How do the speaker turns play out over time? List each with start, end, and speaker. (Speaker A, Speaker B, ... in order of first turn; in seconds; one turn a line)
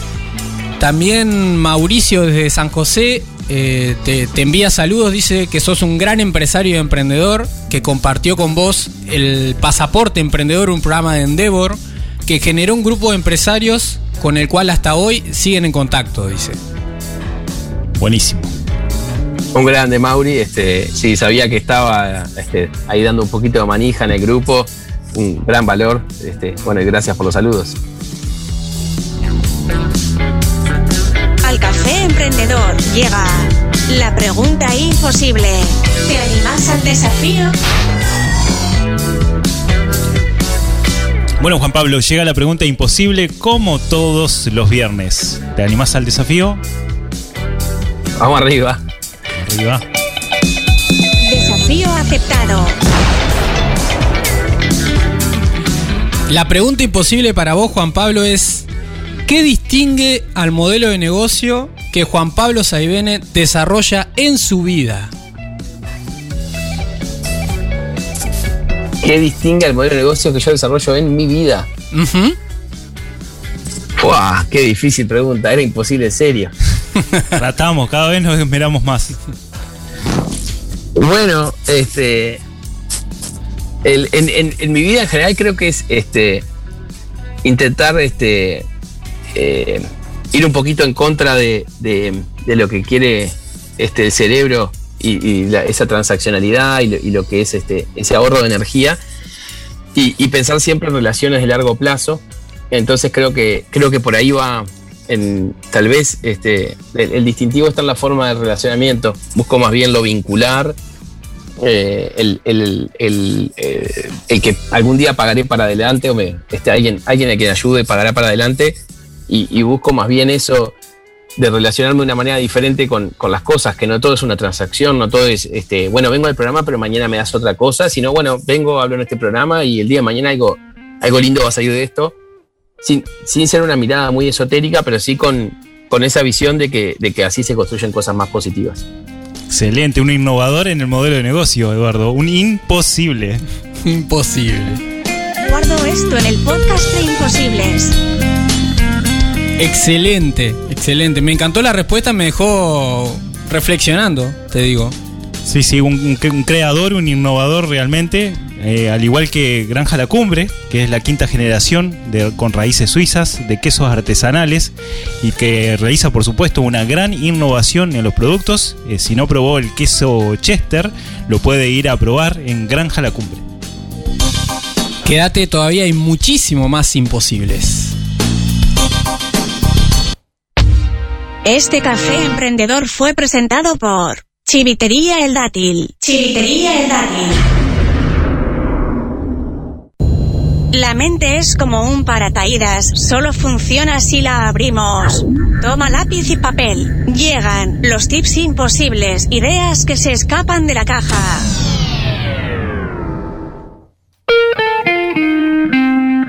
Speaker A: 0.8-16.6
Speaker B: 18.0-18.5
Speaker C: 19.5-27.8
Speaker D: 31.4-37.5
Speaker B: 41.4-46.6
Speaker C: 48.2-48.8
Speaker B: 49.4-49.8
Speaker D: 51.2-52.8
Speaker A: 56.3-58.7
Speaker A: 59.3-65.1
Speaker C: 69.0-71.7
Speaker A: 71.9-72.4
Speaker C: 74.0-76.5
Speaker B: 77.3-79.1
Speaker C: 80.9-82.4
Speaker C: 83.8-86.5
Speaker C: 87.4-88.7
Speaker C: 89.3-99.0
Speaker C: 99.9-110.8
Speaker C: 111.6-120.7
Speaker C: 121.4-132.1
Speaker C: 132.8-138.8
Speaker B: 139.5-143.4
Speaker A: 143.8-144.8
Speaker D: 145.4-148.0
Speaker A: 149.6-154.9
Speaker B: 155.4-173.4
Speaker A: 175.1-177.9
Speaker D: 181.4-187.4
Speaker D: 190.7-201.5